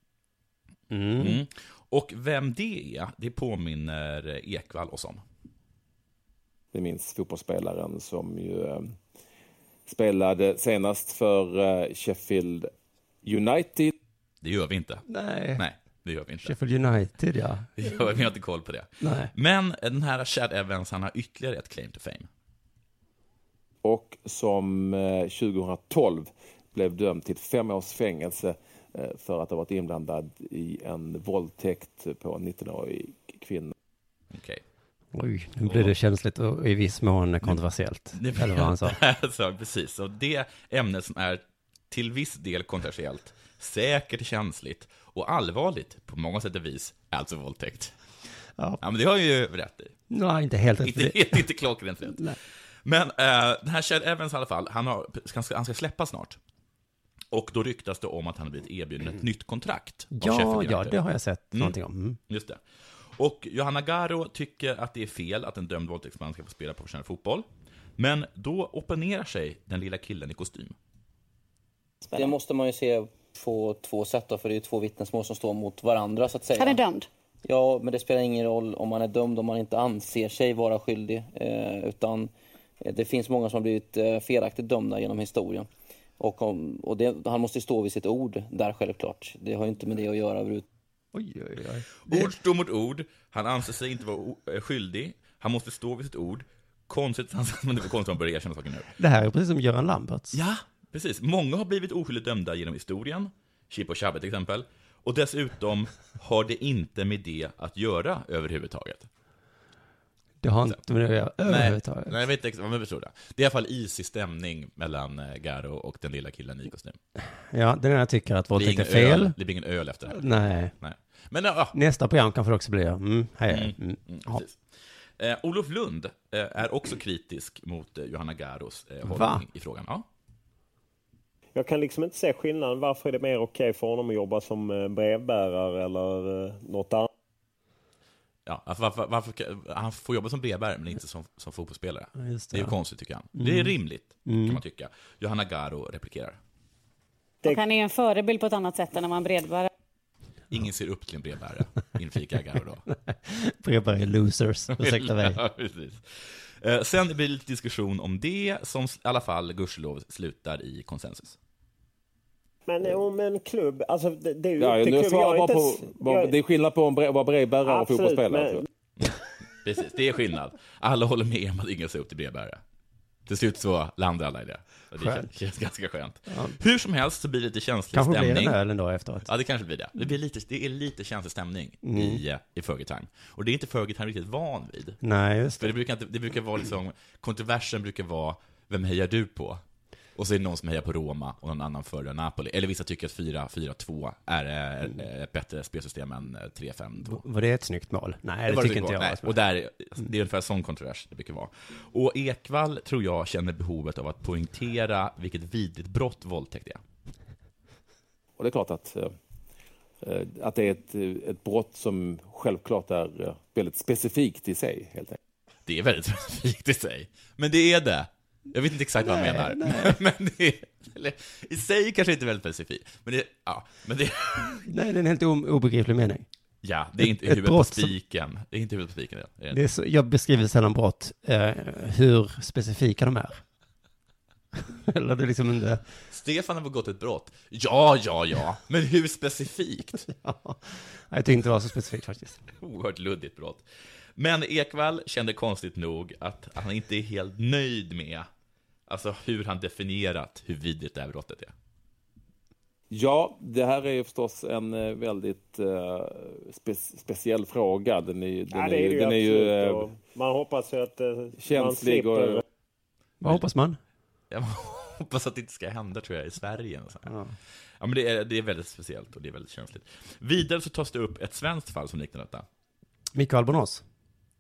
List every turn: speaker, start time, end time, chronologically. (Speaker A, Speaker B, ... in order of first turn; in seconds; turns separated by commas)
Speaker A: 0.9-1.4, Speaker B: 1.2-5.2, Speaker C: 6.7-9.0, Speaker C: 9.9-12.7, Speaker C: 13.2-13.9, Speaker B: 14.4-15.1, Speaker A: 15.1-15.6, Speaker B: 15.6-16.6, Speaker A: 16.4-17.9, Speaker B: 17.8-22.3, Speaker A: 19.0-19.3, Speaker C: 23.8-33.7, Speaker B: 34.3-34.6, Speaker A: 35.1-39.0, Speaker B: 35.7-35.9, Speaker B: 38.1-47.9, Speaker B: 48.8-50.0, Speaker A: 50.1-51.4, Speaker B: 50.8-52.2, Speaker B: 52.9-56.4, Speaker B: 57.3-61.0, Speaker A: 60.1-62.2, Speaker B: 62.3-62.6, Speaker B: 63.1-67.5, Speaker B: 68.0-70.8, Speaker D: 72.1-76.8, Speaker E: 76.6-77.1, Speaker D: 77.4-85.7, Speaker D: 86.2-90.7, Speaker A: 91.1-92.3, Speaker B: 92.0-98.9, Speaker A: 99.0-100.4, Speaker B: 100.3-109.1, Speaker A: 110.4-112.2, Speaker B: 111.5-117.0, Speaker A: 117.5-119.3, Speaker B: 118.6-120.3, Speaker A: 120.1-120.7, Speaker B: 120.8-121.8, Speaker A: 121.7-124.4, Speaker B: 123.5-124.6, Speaker B: 125.2-130.1, Speaker A: 129.0-129.4, Speaker F: 131.6-137.1, Speaker B: 138.5-146.4, Speaker A: 142.2-142.7, Speaker A: 143.3-143.7, Speaker A: 144.3-144.6, Speaker E: 147.4-149.7, Speaker B: 150.5-152.8, Speaker A: 152.9-155.4, Speaker B: 154.8-161.4, Speaker F: 162.7-166.3, Speaker C: 164.6-168.7, Speaker F: 167.7-168.6, Speaker B: 169.0-172.6, Speaker B: 173.3-178.6, Speaker A: 175.0-175.3, Speaker A: 176.3-176.6, Speaker A: 177.9-179.3, Speaker B: 179.2-185.0, Speaker A: 181.8-182.2, Speaker A: 185.0-185.7, Speaker B: 185.6-189.6, Speaker B: 190.2-197.2, Speaker A: 197.0-199.3, Speaker B: 198.5-206.8, Speaker C: 208.4-209.1, Speaker C: 210.0-215.2, Speaker B: 215.7-224.7, Speaker A: 219.0-220.0, Speaker A: 224.7-226.3, Speaker B: 226.6-229.6, Speaker A: 227.0-227.9, Speaker A: 229.5-233.4, Speaker A: 234.7-235.8, Speaker B: 236.1-240.1, Speaker A: 240.1-242.4, Speaker B: 242.6-243.6, Speaker B: 244.2-248.3, Speaker B: 248.9-251.5, Speaker C: 252.9-259.9, Speaker F: 258.5-262.4, Speaker C: 261.4-262.4, Speaker A: 263.2-263.8, Speaker B: 264.3-267.1, Speaker A: 267.1-267.3, Speaker B: 267.8-272.5, Speaker A: 273.1-273.8